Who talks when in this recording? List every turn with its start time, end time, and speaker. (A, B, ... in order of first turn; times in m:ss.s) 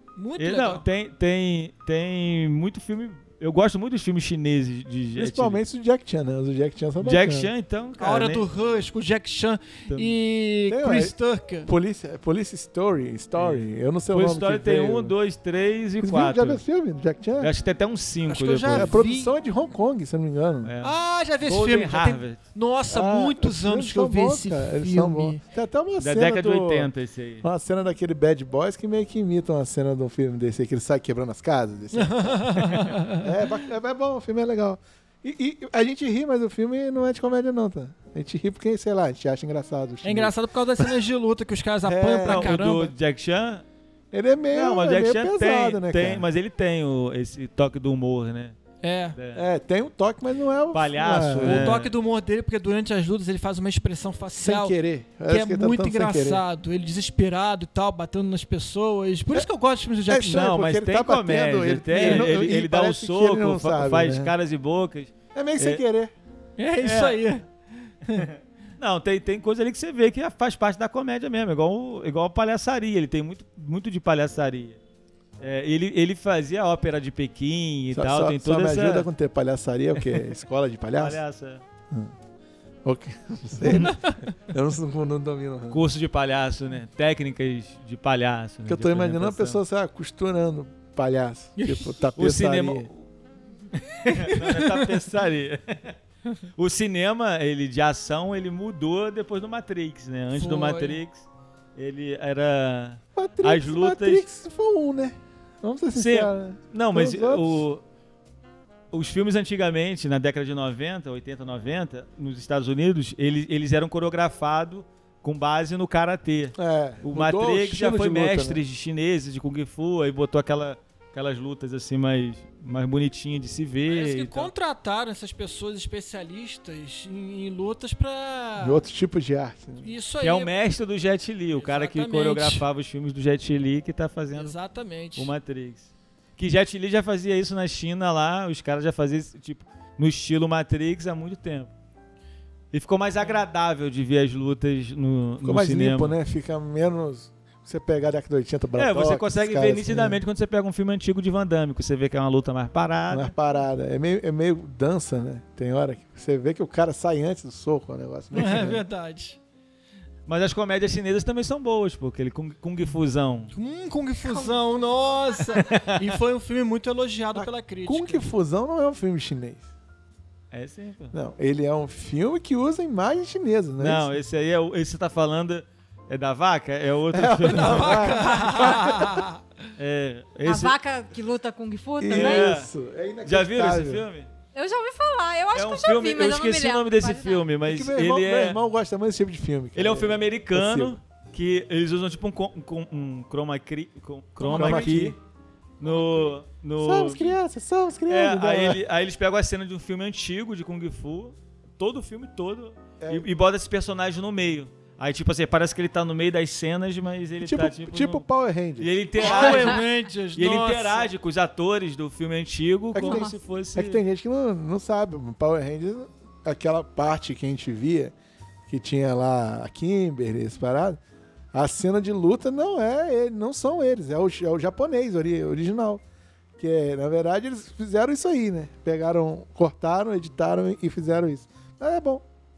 0:00.2-0:00.8 A
0:00.4-0:05.6 B
0:05.2-0:07.5 C
0:07.0-0:08.5 B
0:08.0-0:11.7 A
0:10.7-0:15.1 C
0:13.4-0:16.6 B
0:16.0-0:17.5 C
0:17.4-0:18.9 B
0:18.3-0:19.3 A
0:18.7-0:20.7 C
0:20.6-0:22.4 B
0:20.8-0:25.4 A
0:22.9-0:26.9 C
0:26.0-0:27.4 B
0:27.4-0:32.6 C
0:31.9-0:33.3 A
0:33.2-0:40.3 C
0:40.0-0:42.9 A
0:41.8-0:42.6 C
0:42.2-0:43.6 B
0:44.1-0:46.2 C
0:44.5-0:48.6 B
0:48.8-0:49.2 A
0:49.1-0:49.4 B
0:49.3-0:51.8 C
0:50.7-0:51.9 B
0:51.4-0:54.7 A
0:54.4-0:56.4 C
0:55.3-1:00.4 A
1:00.1-1:04.3 C
1:00.2-1:05.8 B
1:01.9-1:02.4 A
1:05.3-1:06.1 C
1:06.6-1:08.3 A
1:06.8-1:07.2 B
1:08.2-1:14.8 B
1:15.4-1:19.1 B
1:17.9-1:21.2 C
1:21.0-1:21.6 B
1:22.8-1:25.8 C
1:23.6-1:23.9 B
1:23.7-1:24.2 A
1:25.7-1:29.6 B
1:28.7-1:32.9 C
1:31.6-1:31.9 A
1:32.2-1:33.0 B
1:33.7-1:36.0 B
1:34.2-1:34.9 A
1:36.6-1:41.2 B
1:40.3-1:41.0 A
1:41.8-1:44.2 B
1:43.2-1:47.6 C
1:45.9-1:47.8 B
1:48.9-2:04.5 B
1:56.6-1:58.6 C
2:03.9-2:08.8 A
2:08.6-2:09.9 C
2:09.8-2:10.5 A
2:10.2-2:14.6 B
2:11.5-2:12.6 A
2:14.4-2:15.3 A
2:15.1-2:21.7 B
2:22.7-2:26.2 B
2:25.4-2:30.2 C
2:28.7-2:33.3 B
2:33.1-2:38.8 C
2:38.3-2:39.4 A
2:40.3-2:43.5 B
2:43.5-2:48.3 A
2:44.2-2:44.5 D
2:45.6-2:46.1 B
2:47.3-2:49.7 C
2:50.5-2:51.1 B
2:51.1-2:54.2 C
2:53.8-2:58.9 B
2:57.1-2:59.2 C
2:57.5-2:59.4 A
2:59.8-3:00.7 B
3:00.4-3:02.5 D
3:02.0-3:04.1 C
3:02.1-3:02.7 B
3:03.2-3:04.3 B
3:04.5-3:07.5 D
3:05.5-3:08.6 B
3:07.6-3:11.0 C
3:09.7-3:15.2 B
3:14.4-3:15.1 D
3:14.5-3:15.2 C
3:15.8-3:17.4 B
3:16.8-3:18.8 C
3:18.1-3:28.2 B
3:23.0-3:23.3 C
3:27.4-3:28.9 C
3:28.8-3:34.0 B
3:29.2-3:31.1 A
3:32.9-3:38.1 C
3:38.7-3:41.0 C
3:41.5-3:46.0 C
3:46.6-3:52.2 C